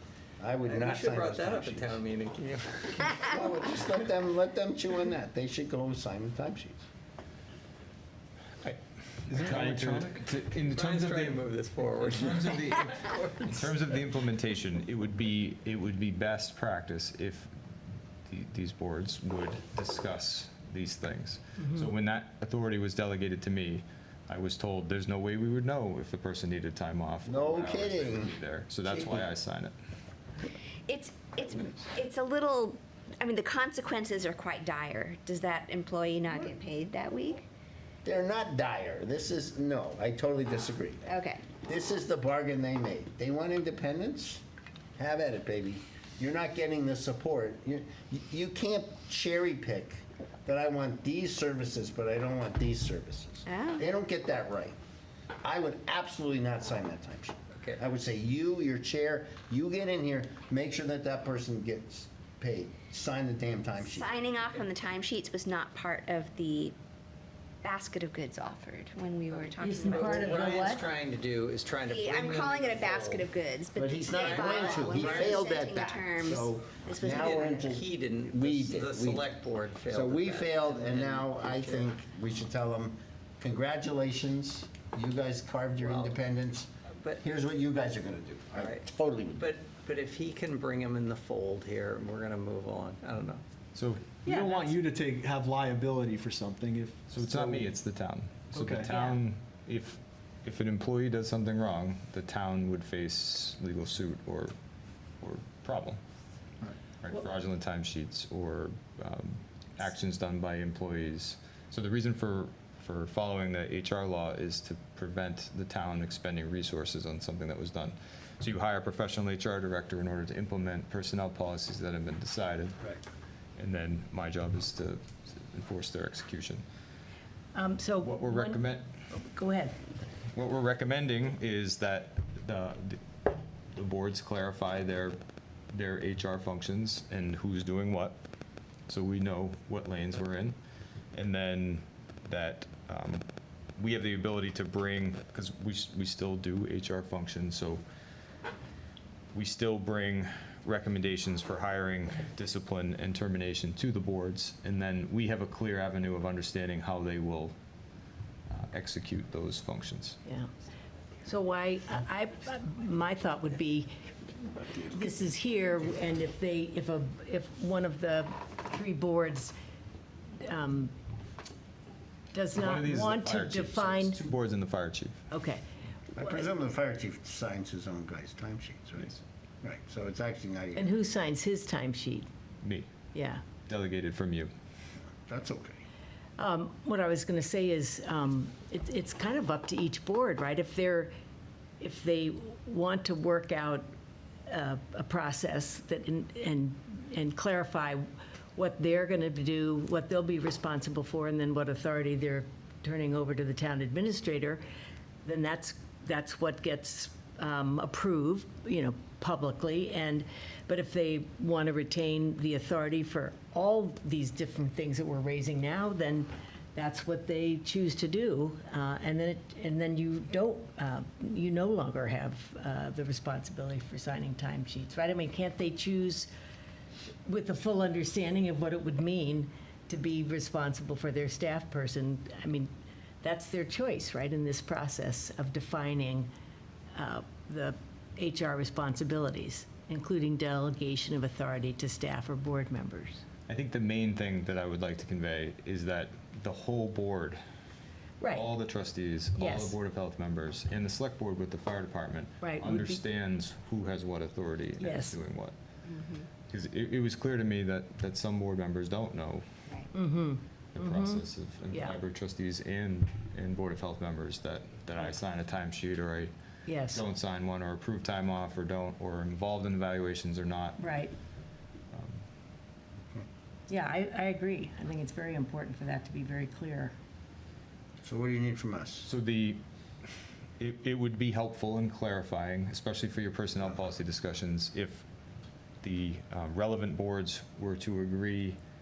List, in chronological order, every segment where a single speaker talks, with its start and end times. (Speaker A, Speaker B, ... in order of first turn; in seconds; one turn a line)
Speaker A: 0.4-2.0
Speaker B: 0.6-3.5
Speaker A: 3.1-6.8
Speaker C: 8.6-17.5
Speaker D: 9.3-10.2
Speaker B: 10.6-14.0
Speaker C: 18.3-29.7
Speaker E: 21.6-21.9
Speaker A: 27.2-29.2
Speaker F: 30.9-37.4
Speaker A: 38.0-41.1
Speaker F: 41.0-41.5
Speaker A: 41.6-44.4
Speaker A: 45.0-54.8
Speaker F: 53.5-53.9
Speaker A: 55.4-64.1
Speaker F: 63.8-66.8
Speaker F: 67.6-70.7
Speaker E: 69.6-70.9
Speaker B: 69.9-73.3
Speaker F: 71.8-77.7
Speaker A: 73.8-79.2
Speaker B: 74.1-75.4
Speaker B: 77.0-81.9
Speaker A: 79.9-86.7
Speaker B: 85.8-86.2
Speaker A: 87.2-89.5
Speaker B: 88.6-93.4
Speaker C: 93.7-94.1
Speaker D: 94.2-97.7
Speaker E: 94.2-94.7
Speaker C: 97.1-104.5
Speaker D: 98.5-99.0
Speaker C: 105.2-106.0
Speaker C: 107.0-122.9
Speaker C: 123.6-126.6
Speaker E: 127.5-129.8
Speaker C: 128.0-128.8
Speaker C: 130.3-133.0
Speaker C: 133.8-135.1
Speaker C: 135.7-138.2
Speaker C: 138.9-140.6
Speaker C: 141.1-143.2
Speaker C: 143.8-147.8
Speaker C: 149.3-157.5
Speaker C: 158.5-160.2
Speaker E: 161.2-163.9
Speaker E: 164.7-169.5
Speaker E: 170.4-170.9
Speaker E: 172.3-174.3
Speaker C: 172.6-175.2
Speaker E: 175.3-175.6
Speaker A: 176.1-180.9
Speaker E: 176.2-176.5
Speaker E: 180.8-182.3
Speaker C: 182.6-182.9
Speaker E: 183.1-183.4
Speaker C: 183.7-184.5
Speaker A: 185.2-185.8
Speaker E: 186.4-191.1
Speaker E: 191.8-193.9
Speaker E: 194.5-204.6
Speaker E: 205.2-226.3
Speaker E: 227.2-232.7
Speaker E: 233.2-236.3
Speaker E: 236.9-243.2
Speaker C: 243.5-247.4
Speaker E: 248.2-248.5
Speaker C: 248.3-255.5
Speaker E: 249.3-249.8
Speaker E: 252.4-253.0
Speaker E: 254.8-255.2
Speaker F: 255.9-256.3
Speaker C: 256.4-259.4
Speaker E: 259.9-262.0
Speaker C: 260.7-266.3
Speaker E: 266.7-267.0
Speaker C: 266.8-270.8
Speaker E: 270.8-271.1
Speaker C: 271.9-272.2
Speaker E: 273.7-276.9
Speaker A: 278.0-279.1
Speaker C: 279.0-279.6
Speaker C: 280.6-285.1
Speaker C: 285.8-288.6